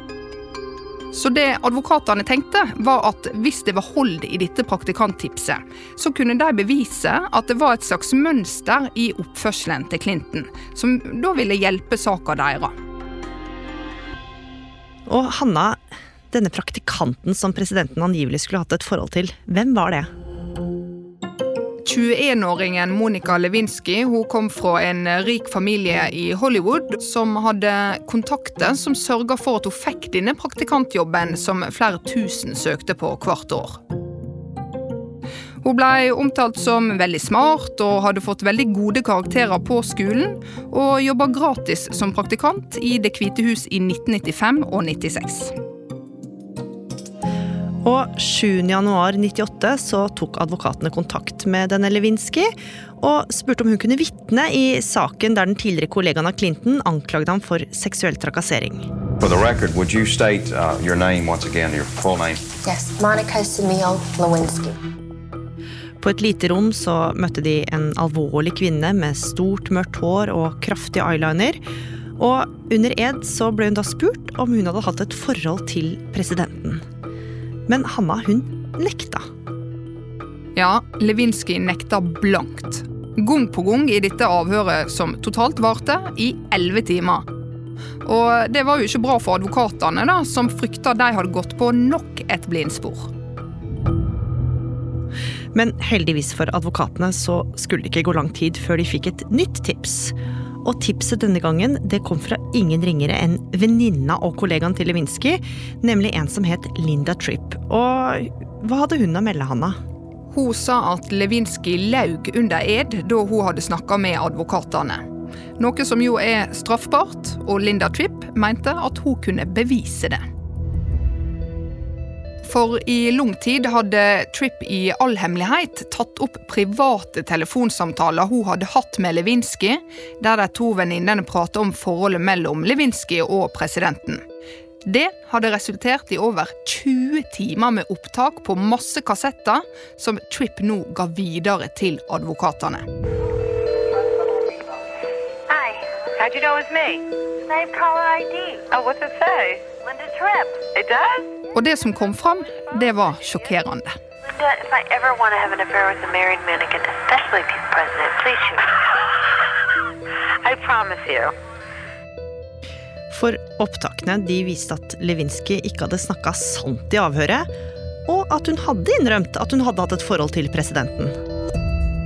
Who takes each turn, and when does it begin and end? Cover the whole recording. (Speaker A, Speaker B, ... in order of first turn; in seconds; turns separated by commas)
Speaker A: 1.1-12.7, Speaker B: 15.1-20.1, Speaker A: 21.9-33.8, Speaker A: 35.6-45.5, Speaker B: 47.8-58.9, Speaker C: 59.2-62.5, Speaker D: 62.6-64.8, Speaker B: 66.0-71.6, Speaker B: 72.2-76.8, Speaker B: 77.7-79.3, Speaker A: 80.6-87.3, Speaker A: 88.0-93.1, Speaker B: 95.5-109.8, Speaker A: 110.3-115.0, Speaker A: 115.6-120.2, Speaker A: 122.5-134.2, Speaker A: 134.8-142.8, Speaker E: 145.5-151.3, Speaker A: 151.5-154.0, Speaker E: 154.2-159.5, Speaker E: 160.4-161.3, Speaker B: 163.1-167.5, Speaker B: 168.1-171.2